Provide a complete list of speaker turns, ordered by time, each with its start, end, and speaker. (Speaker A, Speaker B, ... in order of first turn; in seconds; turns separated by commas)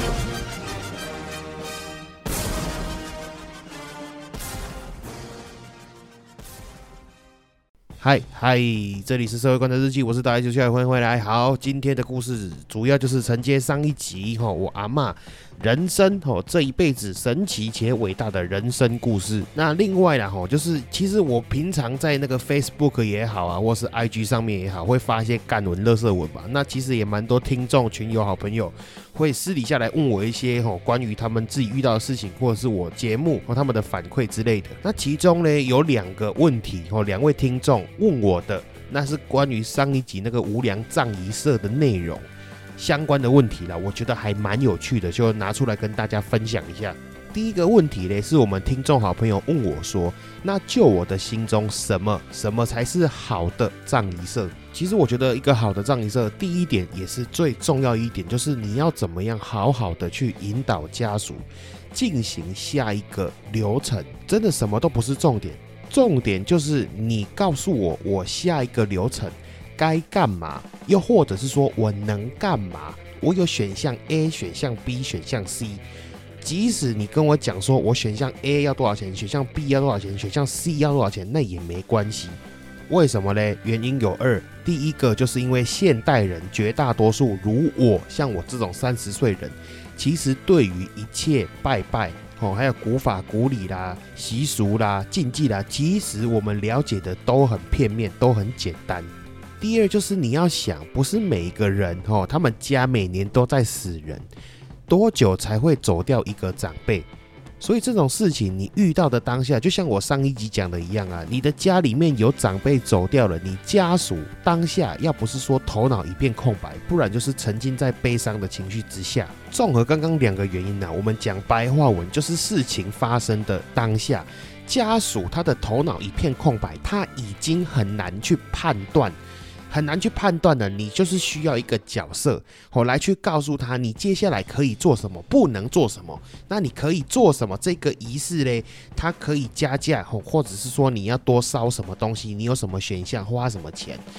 Speaker A: 8.0-75.8, Speaker A: 76.4-104.3, Speaker A: 104.9-107.1, Speaker A: 107.6-129.2, Speaker A: 129.7-144.0